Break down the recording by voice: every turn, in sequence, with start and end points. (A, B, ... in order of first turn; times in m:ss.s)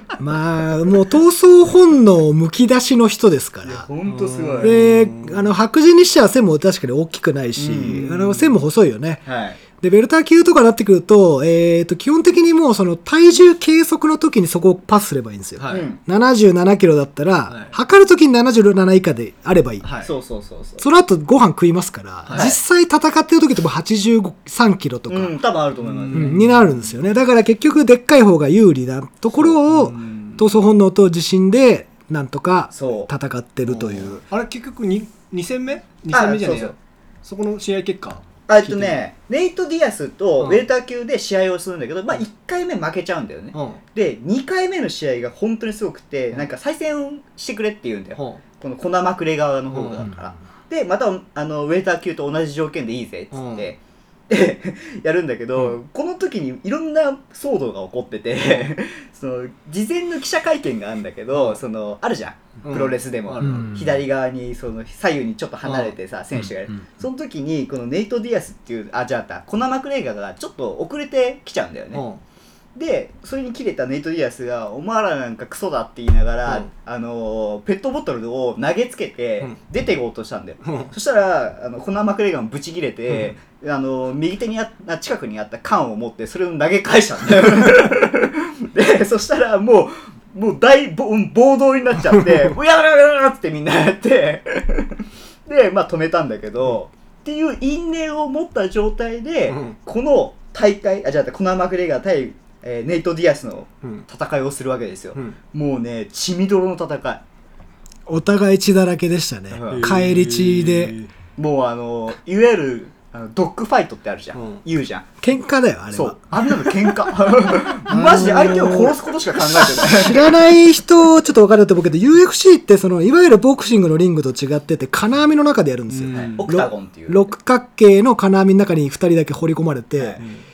0:00.2-0:03.9 A
0:03.7-0:04.8 B
0:04.1-0:05.5 C
0:04.6-0:09.2 A
0:07.6-0:08.1 B
0:07.9-0:08.5 C
0:09.3-0:09.6 B
0:09.8-0:19.8 A
0:15.6-0:15.9 C
0:15.7-0:16.0 B
0:17.5-0:17.8 C
0:19.8-0:20.1 C
0:20.0-0:20.8 B
0:20.8-0:25.4 A
0:22.3-0:22.5 C
0:22.3-0:22.6 B
0:25.1-0:26.4 B
0:25.8-0:26.9 C
0:26.1-0:34.2 A
0:29.5-0:30.4 C
0:32.7-0:33.1 B
0:33.6-0:39.0 C
0:36.1-0:36.8 B
0:38.5-0:53.8 B
0:40.4-0:40.7 C
0:43.5-0:43.8 C
0:48.2-0:48.4 C
0:49.7-0:50.1 C
0:50.0-0:50.3 A
0:53.3-0:53.7 C
0:54.3-1:12.1 B
1:01.3-1:01.6 C
1:02.6-1:03.8 C
1:03.4-1:04.0 A
1:05.6-1:05.9 C
1:11.9-1:12.2 C
1:12.8-1:47.2 B
1:20.6-1:20.9 C
1:39.5-1:39.8 C
1:48.1-1:51.0 A
1:49.5-1:50.0 B
1:49.7-1:51.1 C
1:51.4-1:55.1 B
1:54.3-1:54.6 C
1:55.2-2:10.2 A
1:55.9-2:00.3 B
2:05.9-2:06.5 C
2:06.1-2:07.3 B